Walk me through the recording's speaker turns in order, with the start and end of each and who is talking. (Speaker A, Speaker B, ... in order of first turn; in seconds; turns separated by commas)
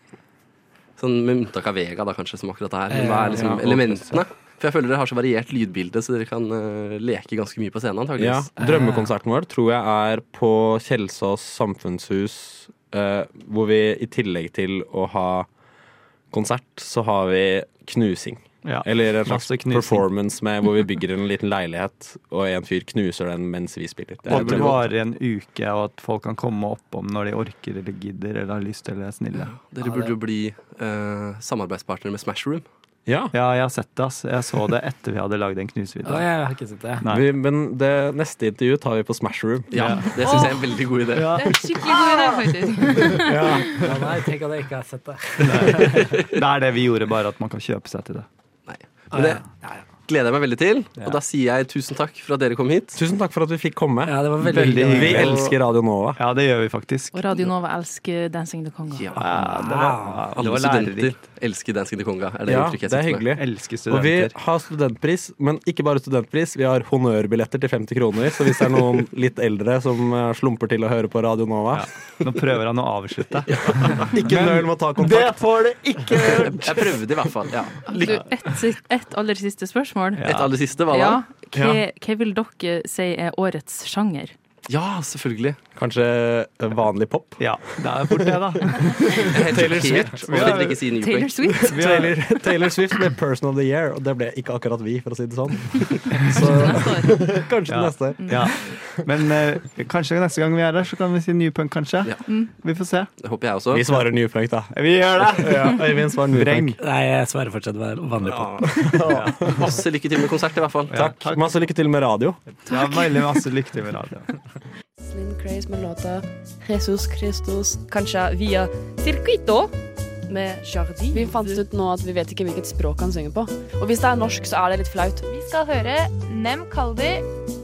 Speaker A: 1.0-8.5, Speaker B: 2.9-3.5, Speaker C: 3.0-4.2, Speaker D: 8.2-15.5, Speaker B: 8.6-9.1, Speaker D: 16.3-24.9, Speaker C: 18.6-20.1, Speaker A: 24.3-24.7, Speaker C: 24.3-30.1, Speaker A: 29.4-32.6, Speaker D: 33.1-33.3, Speaker C: 33.3-36.4, Speaker B: 36.0-37.0, Speaker D: 37.1-40.1, Speaker A: 39.7-41.4, Speaker C: 39.7-40.4, Speaker C: 41.1-41.5, Speaker E: 41.4-43.3, Speaker F: 41.5-42.4, Speaker D: 43.1-43.9, Speaker B: 43.7-46.2, Speaker C: 45.4-48.3, Speaker A: 48.7-53.0, Speaker B: 49.1-49.9, Speaker D: 53.0-54.2, Speaker B: 54.0-55.4, Speaker C: 54.4-55.6, Speaker D: 54.9-56.2, Speaker C: 56.1-57.2, Speaker E: 57.1-59.0, Speaker A: 58.9-59.2, Speaker C: 59.1-61.1, Speaker B: 59.3-60.3, Speaker A: 60.4-63.3, Speaker D: 62.5-71.9, Speaker C: 63.4-64.3, Speaker C: 71.7-77.0, Speaker D: 73.7-75.7, Speaker A: 76.4-78.2, Speaker E: 77.9-80.2, Speaker C: 80.2-80.5, Speaker A: 80.2-81.2, Speaker E: 80.9-84.3, Speaker D: 81.5-81.8, Speaker A: 84.7-85.6, Speaker D: 85.8-88.4, Speaker C: 87.4-90.9, Speaker D: 89.3-90.6, Speaker A: 89.3-91.5, Speaker E: 91.0-91.8, Speaker D: 91.7-98.8, Speaker C: 91.7-92.4, Speaker C: 96.3-96.8, Speaker E: 96.3-97.3, Speaker C: 97.7-103.1, Speaker E: 98.2-98.7, Speaker A: 103.2-103.9, Speaker D: 103.7-106.8, Speaker C: 104.7-106.8, Speaker B: 106.8-109.0, Speaker A: 108.2-108.8, Speaker D: 108.7-109.8, Speaker C: 109.1-109.7, Speaker A: 109.5-110.9, Speaker C: 110.9-111.6, Speaker D: 110.9-112.4, Speaker C: 112.7-114.3, Speaker E: 112.7-113.1, Speaker G: 115.0-119.7, Speaker G: 120.3-125.3, Speaker F: 125.3-127.3